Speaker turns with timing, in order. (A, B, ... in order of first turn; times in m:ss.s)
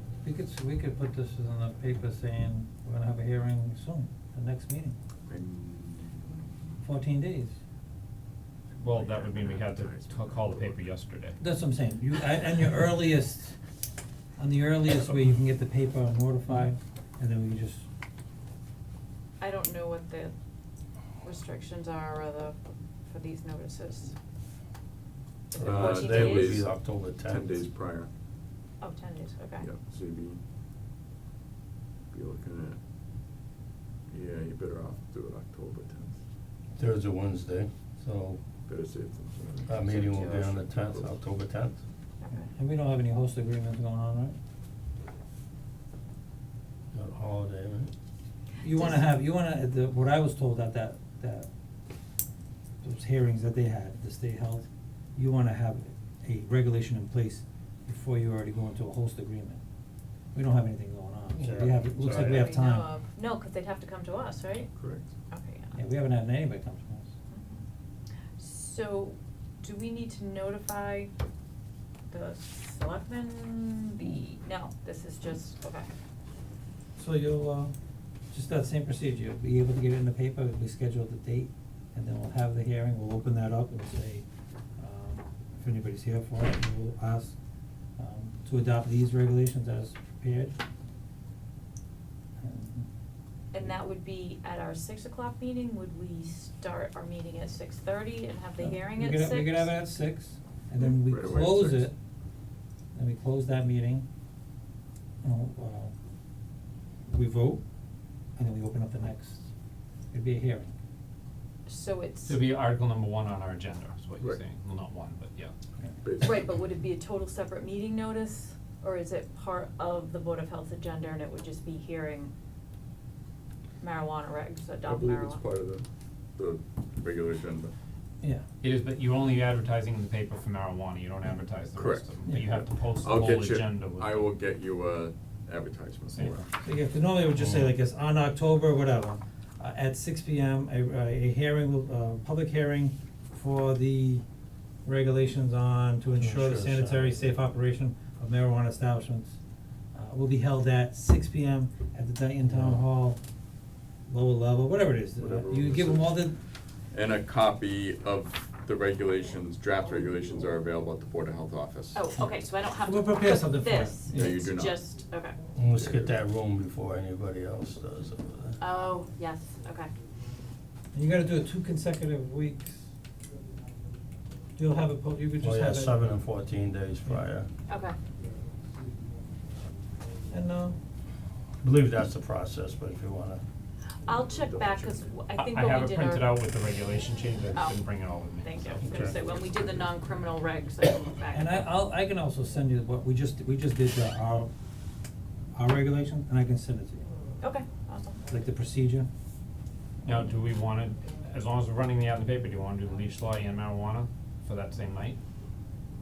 0:00.2-0:04.9 A
0:05.3-0:06.5 B
0:06.8-0:07.5 A
0:08.8-0:11.4 C
0:08.9-0:10.8 B
0:11.4-0:13.6 A
0:14.4-0:17.8 A
0:19.4-0:20.3 D
0:21.2-0:24.2 D
0:25.5-0:26.6 D
0:25.6-0:27.7 E
0:25.6-0:28.1 B
0:28.8-0:29.7 D
0:29.6-0:30.4 B
0:32.1-0:32.8 B
0:34.1-0:36.2 B
0:36.8-0:38.4 E
0:38.6-0:41.2 B
0:39.6-0:41.8 E
0:39.8-0:40.7 D
0:42.2-0:42.5 D
0:42.3-0:44.4 A
0:46.9-0:47.9 E
0:48.6-0:51.5 A
0:48.7-0:49.1 D
0:52.8-0:59.6 A
1:00.3-1:02.9 A
1:01.3-1:02.4 E
1:02.1-1:04.7 D
1:04.7-1:05.0 B
1:05.3-1:05.8 D
1:05.7-1:07.1 A
1:07.3-1:07.6 D
1:08.4-1:11.1 D
1:12.1-1:15.9 D
1:17.0-1:17.7 A
1:18.3-1:24.2 A
1:24.8-1:27.4 A
1:28.0-1:30.5 A
1:32.4-1:32.9 A
1:33.5-1:39.7 D
1:38.6-1:41.9 A
1:40.8-1:41.9 B
1:42.9-1:44.0 A
1:45.2-1:45.9 A
1:47.1-1:47.6 A
1:48.4-1:49.5 A
1:50.1-1:50.7 A
1:51.6-1:52.4 D
1:52.2-1:55.5 C
1:56.0-1:56.4 B
1:56.2-2:02.3 D
2:03.8-2:05.4 D
2:04.8-2:07.7 B
2:08.6-2:14.2 C
2:11.7-2:16.4 B
2:16.1-2:16.4 C
2:16.6-2:24.2 A
2:24.8-2:29.4 A
2:26.1-2:27.2 E
2:29.9-2:33.2 A
2:32.4-2:32.8 E
2:34.1-2:36.4 A
2:35.2-2:35.9 E
2:35.3-2:36.0 B
2:36.9-2:42.1 B
2:41.9-2:45.4 D
2:42.8-2:44.4 A
2:44.1-2:44.8 B
2:45.5-2:48.6 E
2:45.7-2:46.2 B
2:48.6-2:49.9 D
2:50.9-2:52.9 A
2:54.6-2:56.0 A
2:55.4-2:57.5 E
2:57.7-2:58.0 D
3:00.3-3:00.8 A
3:01.6-3:03.4 E
3:04.0-3:06.4 D
3:04.4-3:05.0 B
3:05.4-3:09.2 C
3:07.5-3:07.8 D
3:08.4-3:11.7 D
3:08.8-3:09.2 E
3:11.3-3:14.5 A
3:15.5-3:17.0 A
3:17.4-3:18.2 D
3:18.3-3:19.1 A
3:20.0-3:25.2 C